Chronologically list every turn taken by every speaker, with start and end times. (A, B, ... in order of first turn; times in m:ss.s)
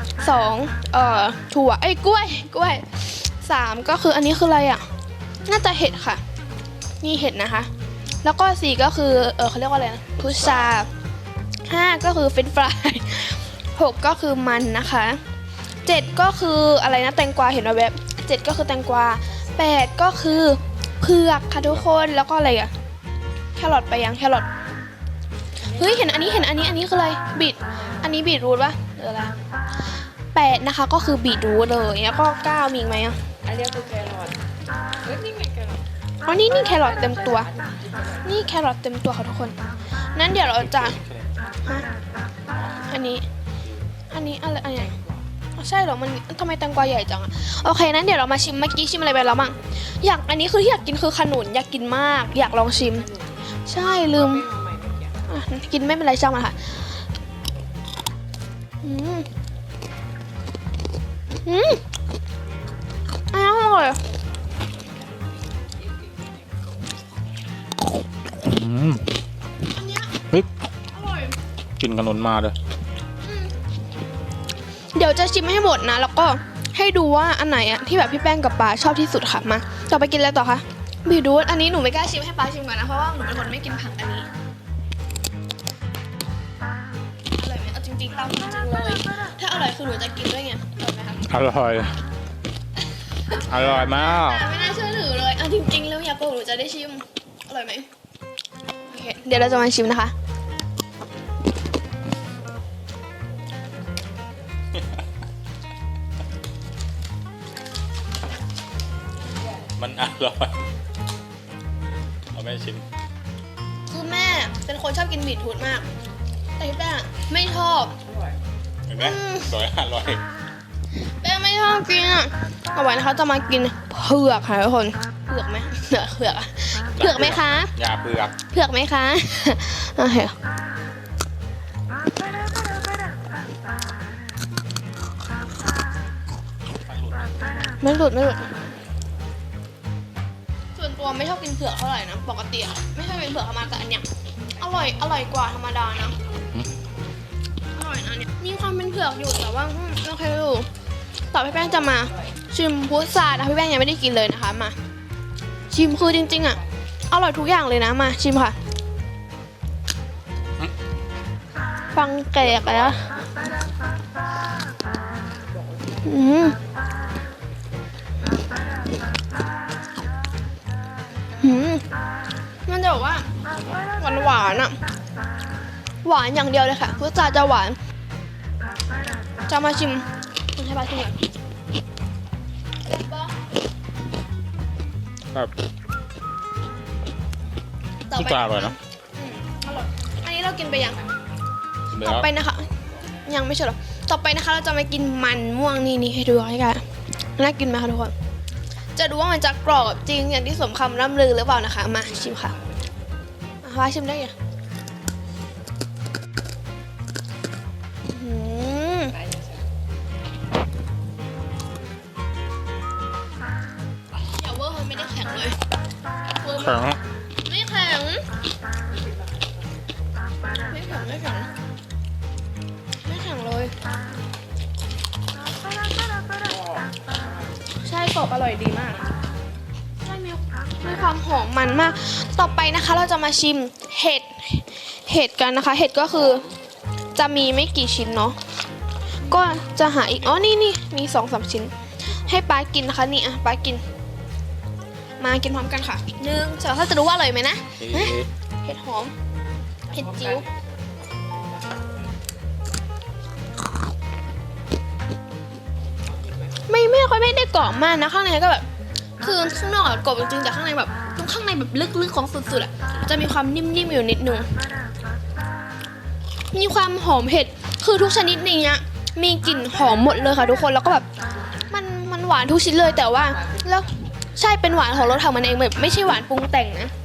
0:00.2-0:04.8 A
0:05.4-0:06.2 A
0:07.0-0:07.7 A
0:08.2-0:10.9 A
0:10.3-0:10.8 B
0:11.6-0:15.2 A
0:15.8-0:22.7 A
0:19.3-0:19.7 C
0:23.6-0:24.5 A
0:25.7-0:26.7 C
0:25.7-0:29.3 A
0:30.3-0:33.2 A
0:33.4-0:34.4 C
0:35.0-0:35.8 C
0:36.2-0:37.5 A
0:36.6-0:38.4 C
0:38.2-0:39.5 A
0:40.1-0:41.0 A
0:40.5-0:41.5 B
0:42.5-0:42.9 B
0:42.9-0:43.2 A
0:44.1-0:44.9 A
0:44.6-0:45.2 C
0:45.6-0:53.1 A
0:52.7-0:53.5 C
0:53.6-0:54.4 A
0:54.1-0:55.1 C
0:55.3-0:56.8 A
0:58.8-0:59.3 A
1:01.4-1:01.8 A
1:03.3-1:04.0 A
1:04.9-1:06.3 C
1:08.4-1:09.0 B
1:09.6-1:10.2 A
1:10.9-1:11.4 A
1:11.8-1:12.5 B
1:13.2-1:13.5 A
1:14.9-1:24.3 A
1:27.4-1:31.3 A
1:31.3-1:32.0 B
1:33.3-1:37.9 A
1:33.5-1:34.4 B
1:38.9-1:40.1 A
1:49.8-1:50.5 B
1:52.3-1:52.8 B
1:53.9-1:55.9 A
1:56.6-1:57.9 A
1:58.0-1:58.4 C
1:58.9-2:00.2 B
1:59.0-1:59.5 A
2:01.2-2:07.7 A
2:07.0-2:08.3 B
2:08.5-2:10.3 A
2:16.8-2:17.3 B
2:17.8-2:18.5 A
2:20.7-2:24.0 A
2:24.6-2:26.2 A
2:27.7-2:30.7 A
2:31.3-2:34.8 A
2:31.5-2:32.3 C
2:35.7-2:36.6 A
2:36.2-2:36.6 C
2:37.1-2:38.6 A
2:41.9-2:43.0 A
2:42.5-2:43.0 B
2:45.5-2:46.1 C
2:46.0-2:46.6 A
2:51.4-2:51.8 A
2:52.6-2:53.3 A
2:54.0-2:54.8 A
2:56.0-2:57.8 A
2:59.5-3:01.2 A
3:02.8-3:03.4 A
3:08.1-3:11.0 A
3:08.1-3:08.8 B
3:11.9-3:12.3 B
3:12.0-3:12.7 A
3:13.2-3:16.8 A
3:17.4-3:18.1 A
3:19.0-3:22.5 A
3:22.1-3:22.8 C
3:23.6-3:24.3 A
3:28.1-3:29.2 A
3:29.1-3:29.6 C
3:34.2-3:35.6 A
3:36.4-3:38.2 A
3:36.6-3:37.0 B
3:40.7-3:41.5 A
3:43.0-3:43.7 A
3:46.4-3:47.5 C
3:47.8-3:49.1 A
3:50.0-3:56.4 A
3:56.2-3:56.5 C
3:57.2-3:58.4 A
3:59.2-4:03.8 A
4:02.1-4:02.3 C
4:05.2-4:09.1 A
4:07.8-4:08.3 B
4:09.9-4:10.7 C
4:09.9-4:10.4 A
4:16.0-4:16.6 C
4:16.7-4:18.6 A
4:19.2-4:24.5 A
4:26.5-4:31.0 A
4:31.7-4:36.9 A
4:33.1-4:33.8 C